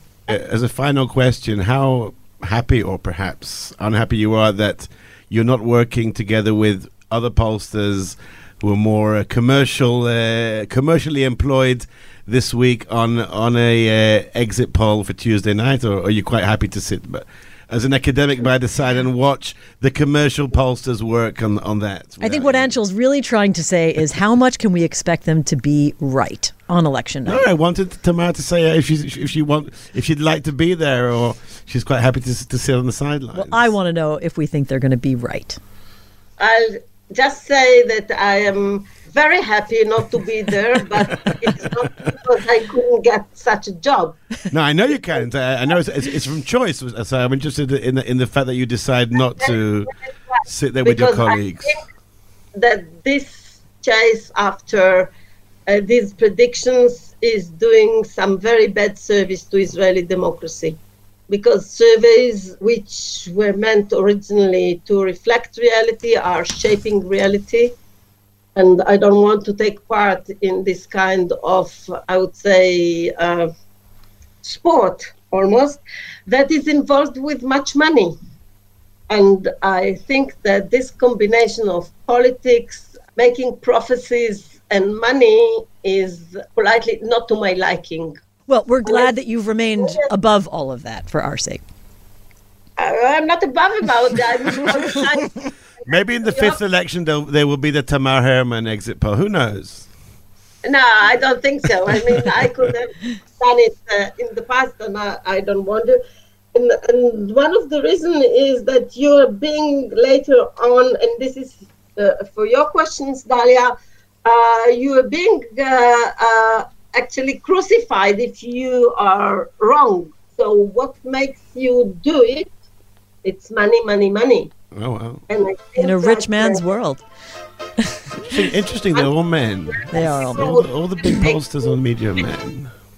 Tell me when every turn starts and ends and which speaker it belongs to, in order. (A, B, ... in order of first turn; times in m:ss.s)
0:00.3-0:22.8 A
0:22.2-0:27.4 B
0:27.2-0:33.7 A
0:33.3-0:35.6 B
0:36.4-0:44.2 C
0:44.5-0:49.9 A
0:50.4-0:51.8 A
0:50.8-0:51.8 C
0:52.6-0:55.1 C
0:55.7-1:07.8 C
1:08.6-1:13.5 C
1:14.4-1:18.2 C
1:19.1-1:28.2 C
1:28.5-1:31.6 B
1:28.8-1:29.1 C
1:29.8-1:30.1 C
1:32.8-1:35.4 C
1:35.9-1:39.9 A
1:36.2-1:36.6 C
1:40.6-1:46.0 C
1:46.5-2:02.5 C
2:03.2-2:04.5 C
2:04.7-2:05.2 A
2:05.3-2:06.6 C
2:05.8-2:07.0 B
2:07.9-2:08.3 B
2:08.2-2:12.7 A
2:09.7-2:11.4 C
2:09.9-2:10.6 B